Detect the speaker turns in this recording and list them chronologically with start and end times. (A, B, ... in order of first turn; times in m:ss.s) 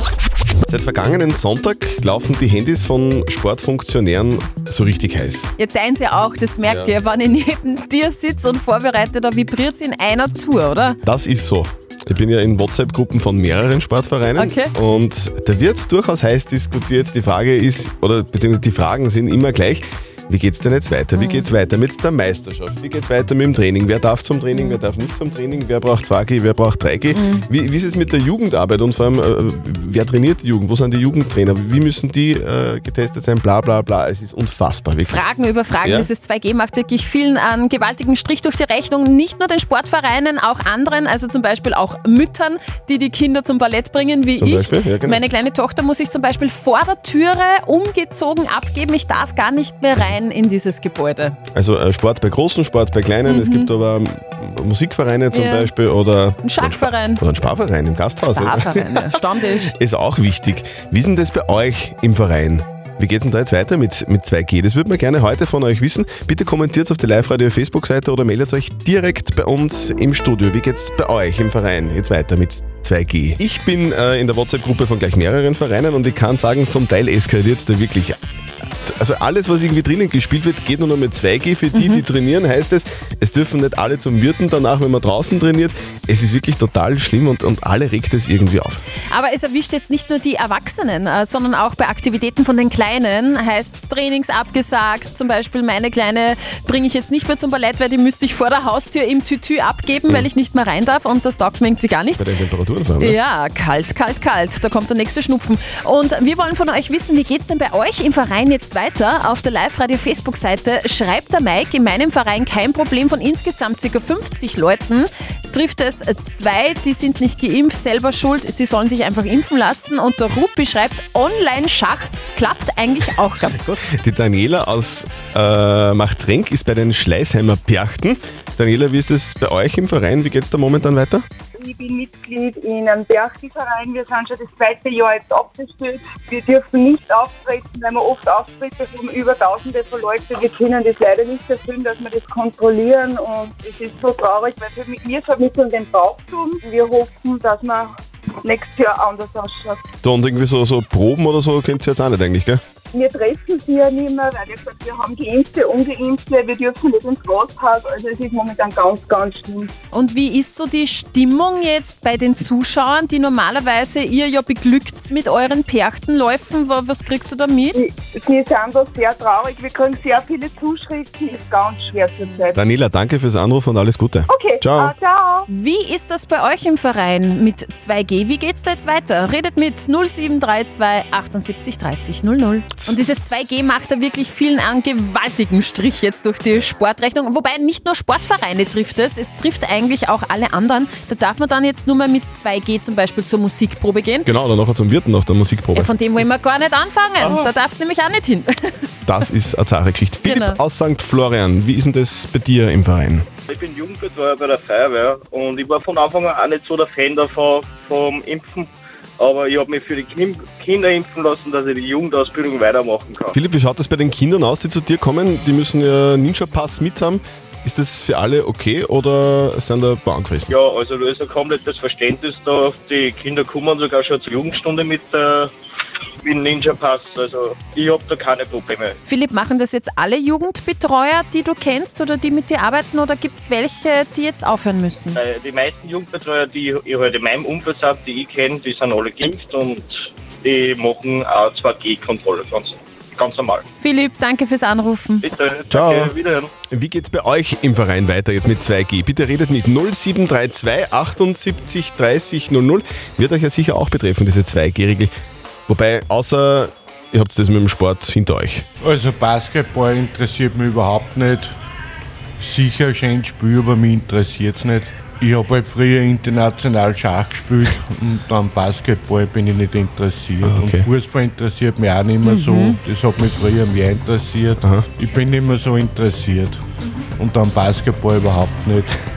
0:00.7-0:05.5 A
0:05.6-0:11.0 B
0:06.6-0:07.0 A
0:11.0-0:35.2 A
0:14.4-0:14.7 B
0:21.2-0:21.5 B
0:24.5-0:24.8 B
0:27.1-0:27.5 B
0:35.1-0:51.4 B
0:35.8-0:36.1 A
0:44.4-0:45.2 A
0:51.5-1:18.2 A
0:53.2-0:53.7 B
0:55.3-0:55.7 B
0:56.4-0:57.2 B
0:58.3-0:59.7 B
1:18.7-1:28.8 A
1:21.7-1:22.0 B
1:29.1-1:42.3 B
1:42.2-1:43.2 A
1:43.0-2:03.9 B
2:03.7-2:11.2 A
2:11.6-2:27.9 C
2:28.4-2:29.8 C
2:30.0-2:32.6 A
2:33.0-2:39.7 C
2:39.9-2:47.8 B
2:47.8-2:52.6 C
2:52.6-2:55.0 A
2:54.4-2:55.4 C
2:55.5-3:14.3 B
3:14.2-3:15.9 A
3:15.8-3:18.9 B
3:17.2-3:17.5 D
3:19.1-3:23.3 A
3:20.2-3:20.6 B
3:23.5-3:33.4 D
3:33.3-3:40.5 A
3:40.5-3:45.5 D
3:46.2-3:49.0 D
3:49.0-3:55.2 B
3:55.2-4:03.6 D
4:03.8-4:05.2 B
4:05.2-4:06.5 D
4:05.7-4:06.1 A
4:06.7-4:15.1 A
4:15.7-4:18.6 A
4:18.8-4:21.6 E
4:22.4-4:36.6 E
4:30.4-4:30.9 A
4:32.2-4:32.8 B
4:34.6-4:34.9 A
4:37.2-4:38.9 E